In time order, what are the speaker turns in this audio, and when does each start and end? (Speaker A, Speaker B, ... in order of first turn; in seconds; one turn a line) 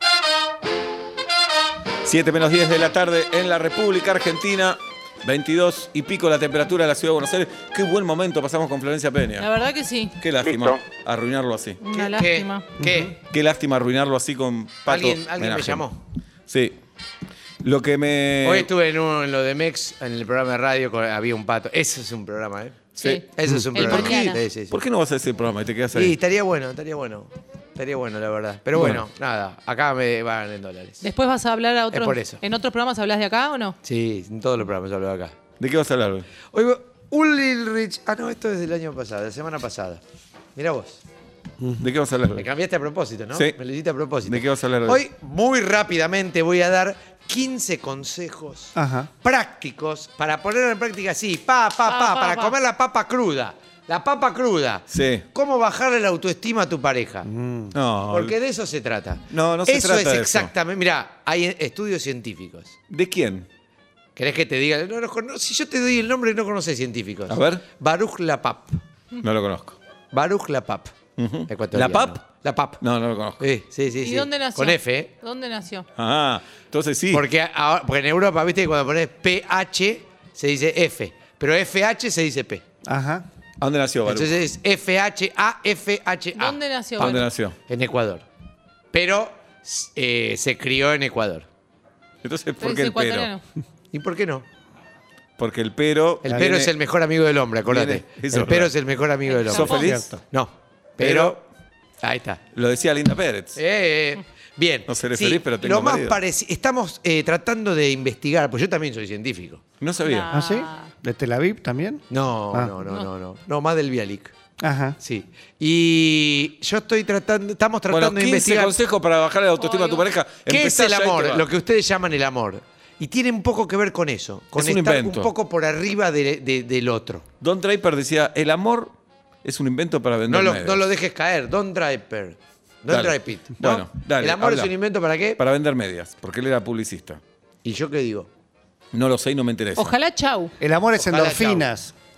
Speaker A: 2.0-9.5
Speaker B: 9.4-10.2
Speaker A: 10.2-11.8
Speaker B: 11.8-12.7
Speaker C: 11.9-13.2
Speaker D: 12.8-13.0
Speaker A: 13.2-15.8
Speaker C: 14.8-16.0
Speaker A: 16.5-16.8
Speaker A: 17.6-18.7
Speaker C: 18.4-24.8
Speaker B: 23.0-24.4
Speaker A: 23.0-23.2
Speaker A: 24.7-26.1
Speaker C: 25.9-31.0
Speaker B: 31.0-33.8
Speaker C: 31.9-32.4
Speaker C: 33.8-35.3
Speaker A: 35.6-36.3
Speaker C: 36.5-40.0
Speaker C: 40.5-41.0
Speaker A: 41.8-42.5
Speaker C: 42.3-57.3
Speaker A: 44.2-45.0
Speaker D: 48.8-49.1
Speaker B: 51.9-52.5
Speaker A: 54.9-55.2
Speaker D: 57.2-57.7
Speaker A: 57.7-58.3
Speaker C: 58.1-62.7
Speaker A: 59.3-60.5
Speaker A: 62.9-63.5
Speaker C: 64.2-68.8
Speaker A: 67.3-67.6
Speaker A: 69.2-69.8
Speaker C: 70.1-70.9
Speaker A: 71.2-72.2
Speaker C: 71.5-72.8
Speaker A: 72.8-73.5
Speaker C: 73.4-75.1
Speaker B: 74.0-75.8
Speaker A: 76.0-77.2
Speaker C: 77.1-82.6
Speaker D: 82.8-83.2
Speaker A: 83.6-84.4
Speaker C: 84.0-88.2
Speaker B: 86.3-87.3
Speaker A: 87.0-87.5
Speaker C: 88.9-91.5
Speaker A: 92.2-93.3
Speaker B: 92.6-93.4
Speaker C: 93.9-94.5
Speaker A: 95.4-96.7
Speaker C: 96.2-101.4
Speaker A: 97.7-98.7
Speaker B: 99.3-100.0
Speaker A: 99.4-100.1
Speaker D: 99.7-100.2
Speaker A: 101.0-101.4
Speaker C: 102.0-102.4
Speaker A: 102.5-103.6
Speaker C: 103.5-109.6
Speaker A: 104.9-106.2
Speaker A: 109.8-110.3
Speaker B: 110.0-110.9
Speaker D: 110.3-112.7
Speaker C: 112.1-114.3
Speaker D: 114.6-115.0
Speaker C: 115.0-118.8
Speaker A: 117.9-121.5
Speaker B: 119.6-120.0
Speaker C: 120.5-127.2
Speaker A: 124.5-125.3
Speaker A: 127.4-130.8
Speaker C: 130.3-135.4
Speaker A: 132.9-134.7
Speaker A: 135.4-137.2
Speaker C: 137.6-138.3
Speaker A: 138.9-140.0
Speaker B: 139.8-140.5
Speaker D: 140.6-141.9
Speaker C: 140.9-141.7